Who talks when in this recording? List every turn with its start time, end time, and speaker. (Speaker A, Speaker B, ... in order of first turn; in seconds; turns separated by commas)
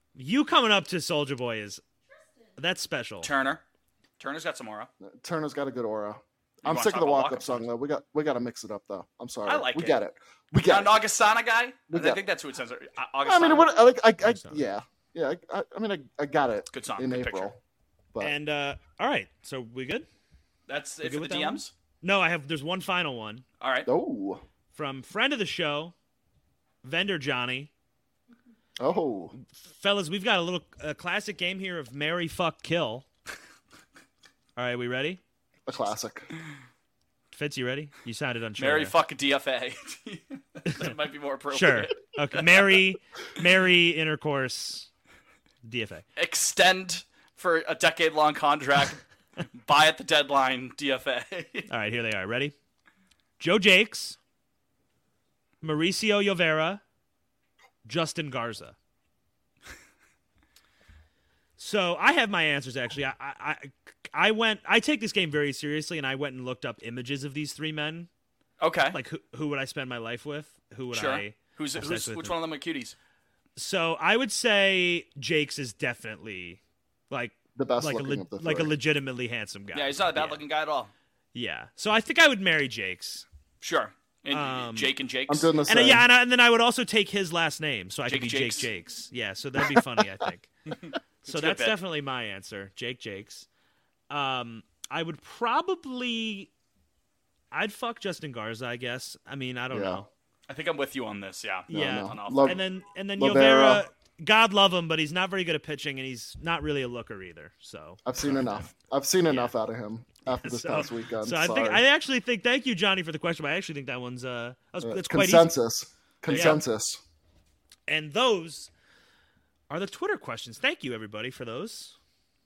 Speaker A: 0.2-1.8, Speaker A: 2.6-3.3, Speaker B: 3.2-3.6, Speaker B: 4.2-4.9, Speaker C: 5.0-11.0, Speaker B: 6.6-7.7, Speaker B: 9.4-10.0, Speaker B: 10.6-13.8, Speaker C: 11.9-12.2, Speaker C: 13.2-17.6, Speaker A: 14.2-14.6, Speaker B: 16.7-17.5, Speaker A: 18.2-20.1, Speaker B: 20.7-21.7, Speaker A: 21.0-23.4, Speaker B: 23.6-23.9, Speaker C: 23.9-24.4, Speaker A: 24.7-25.9, Speaker A: 26.8-27.7, Speaker C: 28.8-29.4, Speaker A: 29.6-33.1, Speaker A: 34.6-35.2, Speaker C: 35.7-36.3, Speaker A: 37.3-38.9, Speaker B: 38.6-42.8, Speaker A: 40.7-40.9, Speaker A: 41.5-44.9, Speaker A: 45.6-46.0, Speaker B: 46.2-49.0, Speaker B: 49.6-51.7, Speaker A: 51.7-52.5, Speaker A: 53.4-54.2, Speaker A: 55.6-56.8, Speaker A: 57.9-58.8, Speaker A: 61.6-68.1, Speaker B: 68.6-69.0, Speaker A: 68.9-72.4, Speaker B: 70.9-73.0, Speaker A: 73.6-80.4, Speaker C: 77.5-78.7, Speaker B: 79.7-80.9, Speaker A: 81.3-83.3, Speaker B: 83.6-85.5, Speaker A: 84.3-84.9, Speaker C: 85.3-86.1, Speaker A: 85.7-90.5, Speaker B: 88.1-88.7, Speaker B: 91.2-91.8, Speaker A: 91.3-93.5, Speaker A: 94.1-96.5, Speaker A: 97.5-100.1, Speaker C: 99.7-100.0, Speaker B: 100.5-102.6, Speaker A: 101.7-108.4, Speaker C: 101.7-102.6, Speaker C: 103.2-103.8, Speaker C: 108.0-111.8, Speaker A: 110.3-115.5, Speaker C: 114.8-117.0, Speaker A: 116.3-116.6, Speaker B: 116.3-116.6, Speaker A: 117.9-118.7, Speaker A: 119.7-122.0